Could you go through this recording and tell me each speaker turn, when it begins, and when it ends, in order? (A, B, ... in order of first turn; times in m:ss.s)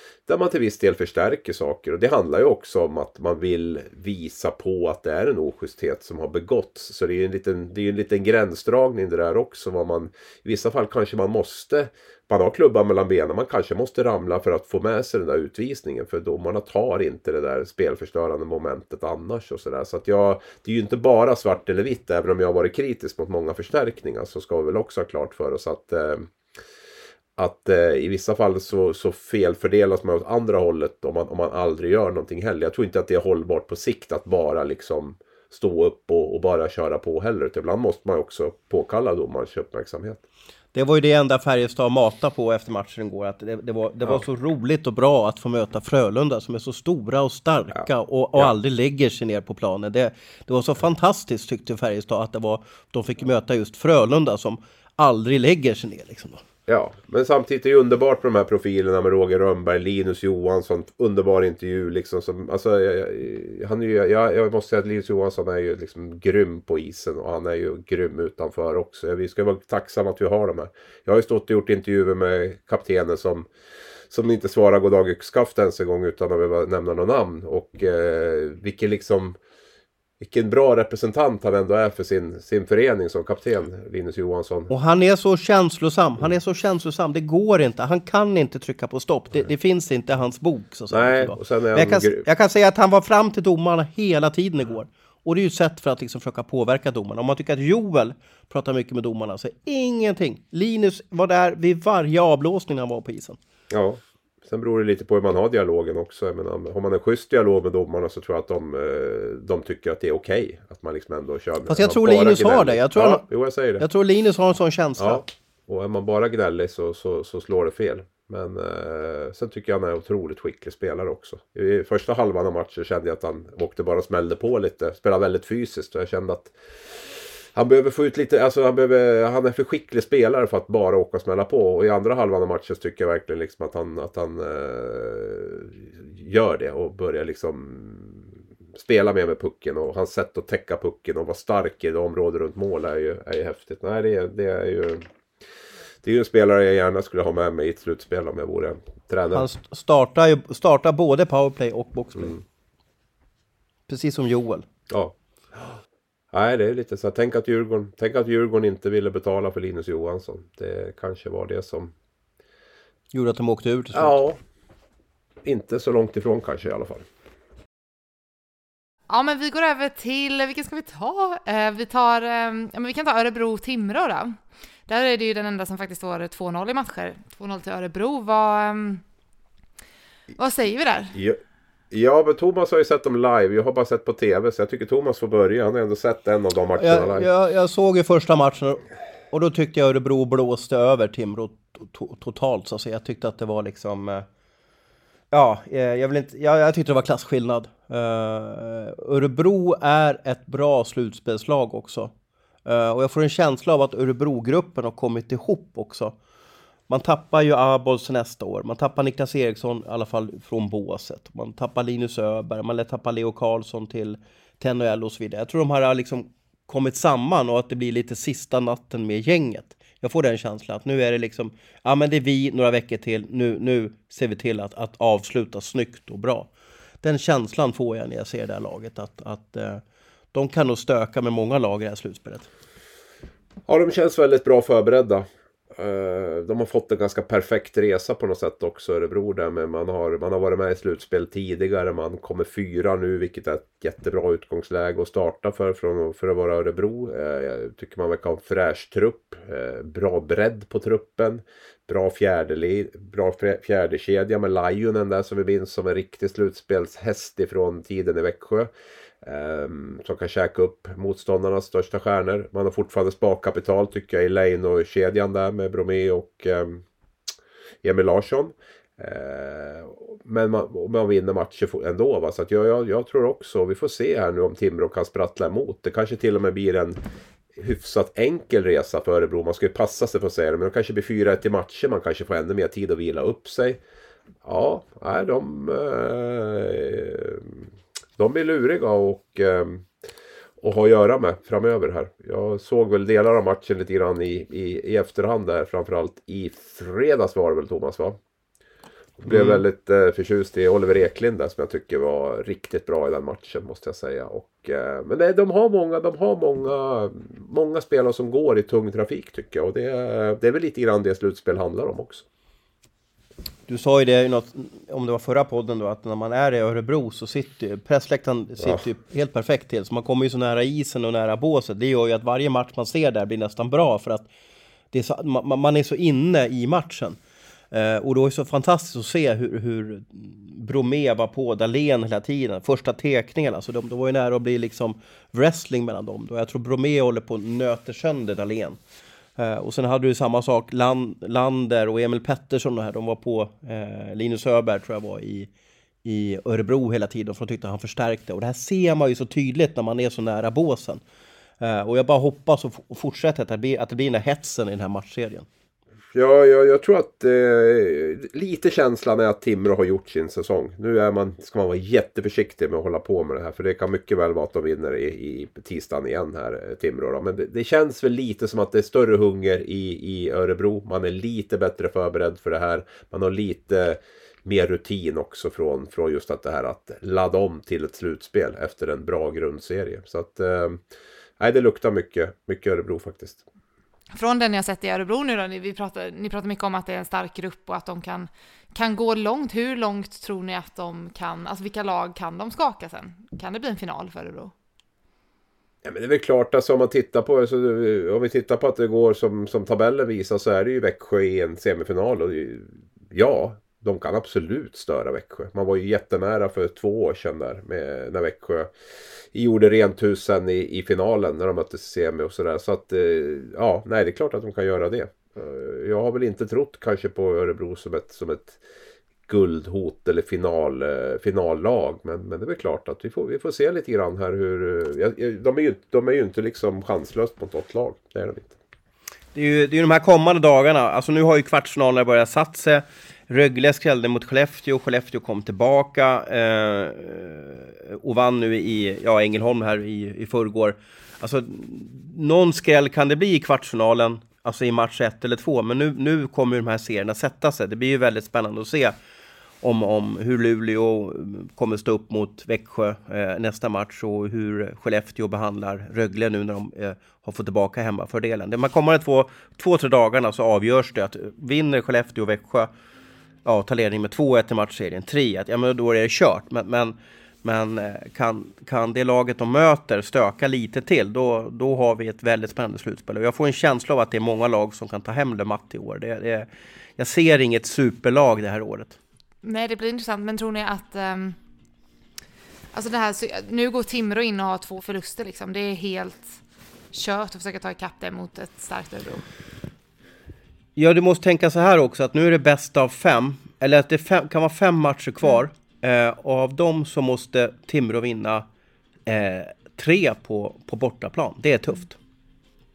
0:00.3-0:26.3 A
0:27.4-0:40.2 A
0:40.7-0:56.4 B
0:47.7-0:48.5 A
0:56.7-1:13.5 A
1:14.1-1:19.4 A
1:20.2-1:24.7 A
1:24.7-1:43.4 B
1:30.9-1:32.2 A
1:43.7-1:53.8 A
1:51.7-1:53.2 B
1:53.8-1:55.2 B
1:55.0-2:06.5 A
2:07.5-2:25.1 A
2:26.0-2:29.5 A
2:29.3-2:32.4 B
2:33.9-2:34.6 B
2:34.9-2:35.8 A
2:36.3-2:41.9 A
2:43.1-2:44.2 B
2:43.9-2:44.4 A
2:45.4-2:47.0 A
2:49.1-2:59.0 C
3:00.4-3:01.2 C
3:01.1-3:01.4 A
3:01.9-3:07.3 A
3:06.8-3:14.2 B
3:15.3-3:22.1 B
3:22.6-3:26.2 B
3:26.9-3:46.5 B
3:47.0-3:49.8 B
3:50.3-3:52.5 B
3:53.7-4:18.7 A
4:19.2-4:26.8 A
4:27.8-4:37.0 A
4:37.6-4:43.8 A
4:44.4-4:49.9 A
4:50.6-4:58.2 A
4:59.2-5:12.2 A
4:59.3-4:59.6 B
5:13.7-5:24.3 B
5:24.9-5:27.2 B
5:27.7-5:38.8 B
5:39.4-5:45.5 B
5:46.0-5:51.0 B
5:51.6-5:55.4 B
5:56.1-6:20.8 A
6:21.4-6:23.4 A
6:24.1-6:34.5 C
6:35.8-6:48.7 A
6:49.3-6:58.6 A
6:59.3-7:08.5 A
7:09.3-7:28.9 B
7:29.6-7:42.7 B
7:43.4-7:59.0 B
7:59.4-8:01.4 C
8:02.7-8:06.4 C
8:06.9-8:09.2 C
8:10.8-8:18.4 B
8:19.0-8:22.0 B